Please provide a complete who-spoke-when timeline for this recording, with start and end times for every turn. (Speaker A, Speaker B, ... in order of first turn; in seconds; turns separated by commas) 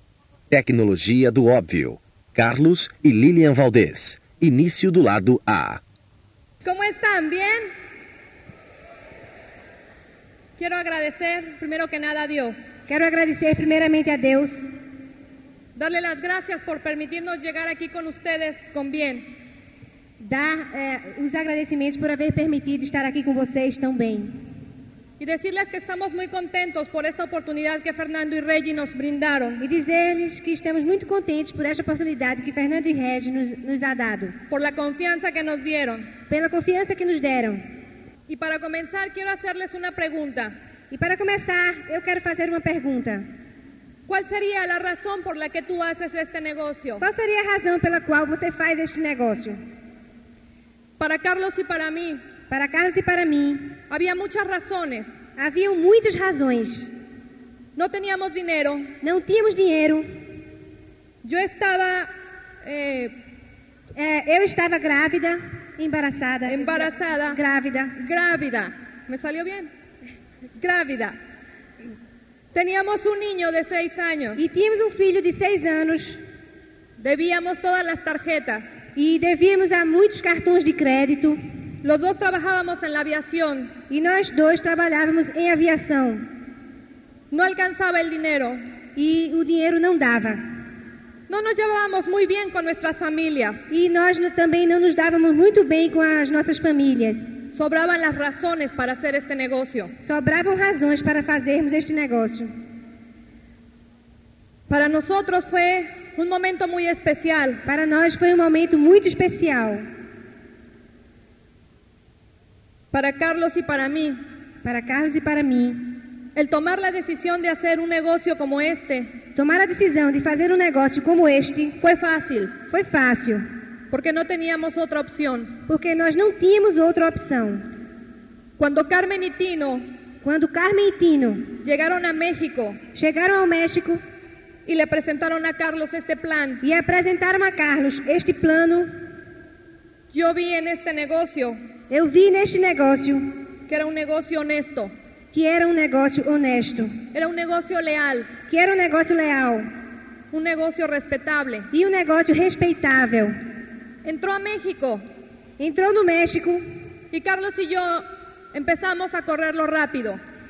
Speaker A: 0.5-5.8, Speaker B: 6.6-7.7, Speaker B: 10.6-12.7, Speaker C: 12.9-14.6, Speaker B: 15.8-19.3, Speaker C: 20.2-24.4, Speaker B: 25.2-29.6, Speaker C: 29.6-34.4, Speaker B: 34.5-36.1, Speaker C: 36.3-37.6, Speaker B: 38.3-40.5, Speaker C: 40.9-43.3, Speaker B: 44.1-47.0, Speaker C: 47.0-49.6, Speaker B: 51.0-52.2, Speaker C: 52.5-53.8, Speaker B: 53.9-55.1, Speaker C: 55.4-56.9, Speaker B: 57.8-58.9, Speaker C: 59.0-60.1, Speaker B: 61.2-62.1, Speaker B: 62.6-63.1, Speaker C: 64.0-68.0, Speaker B: 66.5-67.4, Speaker B: 68.0-69.7, Speaker B: 70.6-71.1, Speaker B: 72.5-74.4, Speaker C: 74.4-76.2, Speaker B: 77.0-78.7, Speaker C: 79.0-81.4, Speaker B: 81.8-83.7, Speaker C: 83.9-86.2, Speaker B: 87.3-88.6, Speaker C: 89.0-90.4, Speaker B: 91.3-93.7, Speaker C: 93.7-97.3, Speaker B: 97.5-99.9, Speaker C: 100.0-102.5, Speaker B: 104.7-107.6, Speaker C: 107.6-109.8, Speaker B: 112.9-114.2, Speaker C: 114.6-115.9, Speaker B: 116.3-119.1, Speaker C: 119.4-121.8, Speaker B: 121.8-122.5, Speaker C: 122.7-123.4, Speaker B: 123.9-125.6, Speaker C: 125.7-127.7, Speaker B: 128.6-129.9, Speaker C: 130.2-131.6, Speaker B: 131.6-132.8, Speaker C: 132.9-134.0, Speaker B: 134.7-136.6, Speaker C: 136.6-138.9, Speaker B: 140.1-141.6, Speaker C: 141.9-143.4, Speaker B: 143.7-144.9, Speaker C: 145.3-146.9, Speaker B: 147.1-148.3, Speaker C: 148.5-149.7, Speaker B: 150.3-151.7, Speaker C: 151.7-153.4, Speaker B: 154.1-155.1, Speaker C: 155.6-156.7, Speaker B: 157.1-160.2